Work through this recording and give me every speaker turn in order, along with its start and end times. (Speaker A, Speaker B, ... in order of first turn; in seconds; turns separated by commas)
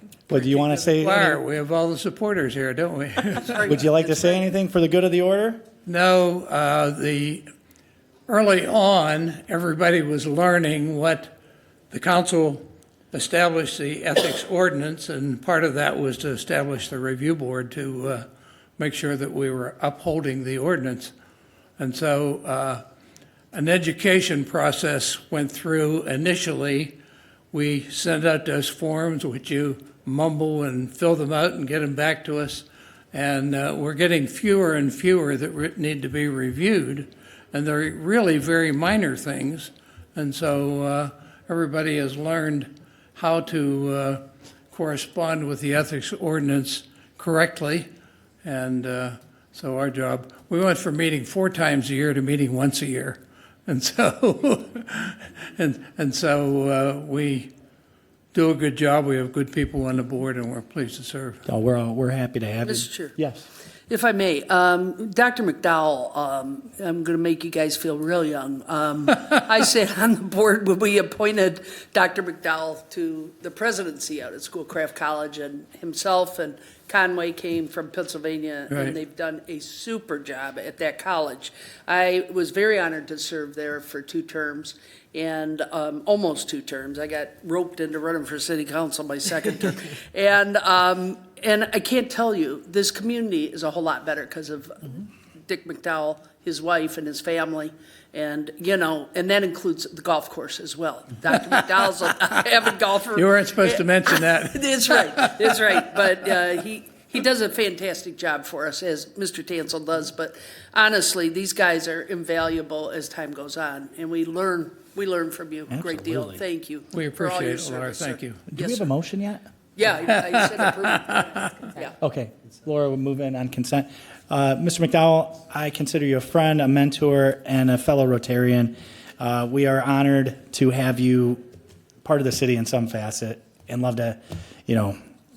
Speaker A: 0.3-1.4, Speaker B: 0.4-3.8, Speaker C: 3.5-4.4, Speaker A: 3.6-5.6, Speaker B: 5.8-7.4, Speaker B: 8.3-11.3, Speaker B: 11.9-18.2, Speaker B: 18.8-21.1, Speaker B: 21.8-22.8, Speaker B: 23.5-27.0, Speaker B: 27.5-47.9, Speaker B: 48.4-57.5, Speaker B: 58.3-61.4, Speaker A: 61.5-63.5, Speaker C: 62.6-63.1, Speaker C: 63.9-118.9, Speaker B: 78.7-79.0, Speaker B: 103.1-105.8, Speaker A: 115.7-116.4, Speaker B: 116.9-118.4, Speaker A: 118.5-119.5, Speaker C: 119.8-122.0, Speaker B: 120.2-121.5, Speaker A: 122.0-131.4, Speaker A: 132.0-135.0